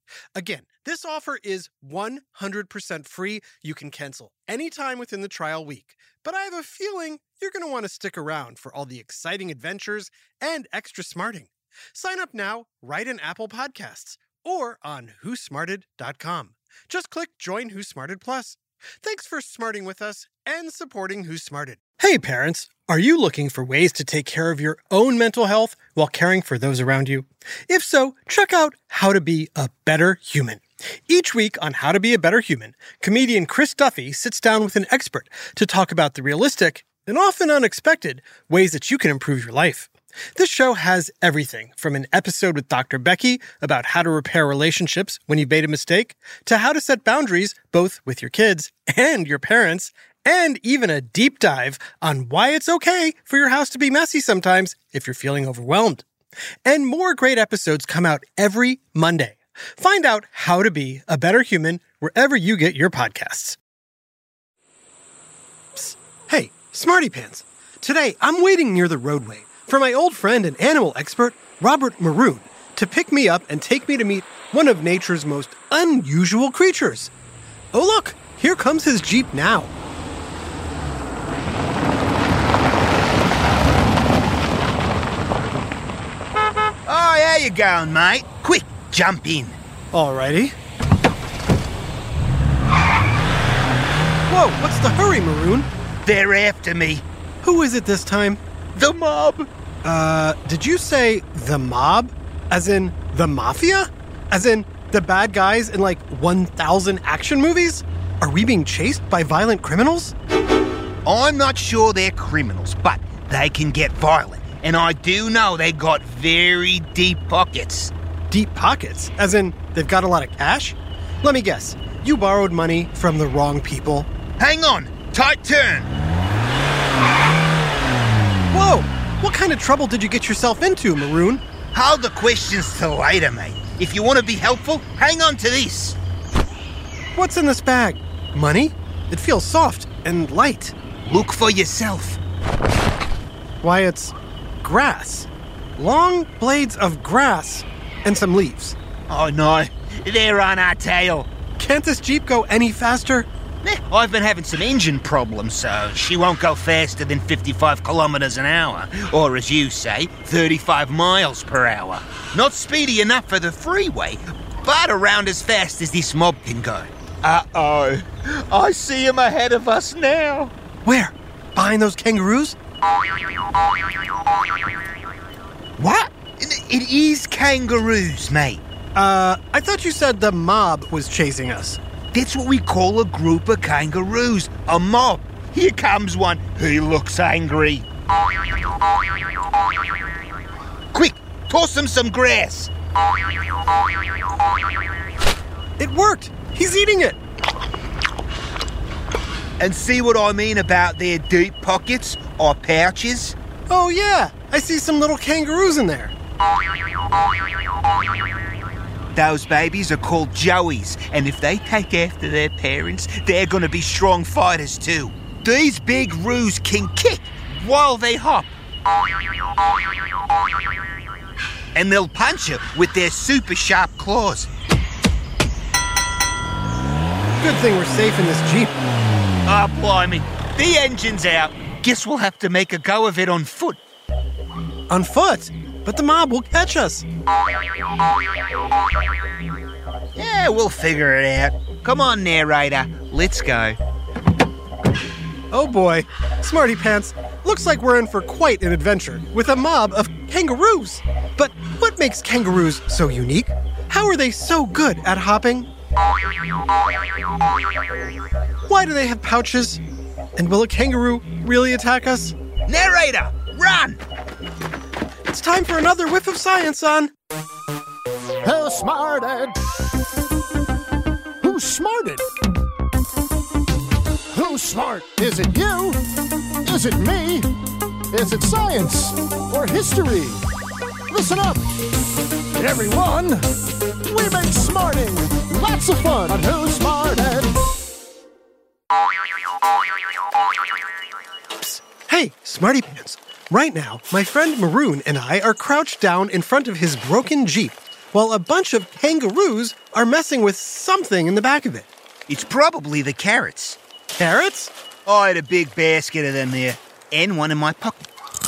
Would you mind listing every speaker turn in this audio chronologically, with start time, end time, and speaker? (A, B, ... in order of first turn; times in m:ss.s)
0:00.4-0:56.0 A
0:56.6-1:03.6 A
1:05.7-1:17.1 A
1:17.7-1:19.7 A
1:26.9-1:29.6 B
1:29.9-1:30.5 A
1:34.3-1:35.7 A
1:36.0-1:37.0 B
1:37.4-1:38.4 A
1:38.7-1:39.5 B
1:39.8-1:50.1 A
1:51.0-1:57.9 B
1:58.3-2:04.1 A
2:04.4-2:05.9 B
2:08.5-2:11.4 A
2:11.7-2:16.0 B
2:17.2-2:20.7 A
2:21.0-2:22.2 B
2:23.6-2:28.8 A
2:29.1-2:31.3 B
2:31.6-2:33.3 A
2:33.6-2:50.5 B
2:50.8-2:52.6 A
2:55.8-2:58.6 B
2:58.9-3:01.8 A
3:02.1-3:07.8 B
3:10.9-3:12.7 B
3:15.8-3:17.2 A
3:19.6-3:23.4 B
3:23.7-3:26.1 A
3:29.1-3:38.5 B
3:41.7-3:44.5 B
3:47.4-3:48.8 A
3:49.5-3:53.8 B
3:54.9-3:57.0 A
4:00.2-4:03.8 B
4:05.5-4:15.7 A
4:18.7-4:19.8 A
4:20.4-4:22.3 A
4:22.7-4:24.0 B
4:25.3-4:27.1 A
4:28.4-4:29.6 C
4:31.4-4:32.2 C
4:34.3-4:36.0 C
4:36.6-4:37.5 C
4:38.1-4:40.4 C
4:41.1-4:41.7 C
4:42.6-4:43.4 C
4:44.0-4:47.5 C
4:51.6-5:01.9 A
5:02.3-5:03.8 B
5:04.2-5:04.7 A
5:05.0-5:08.0 B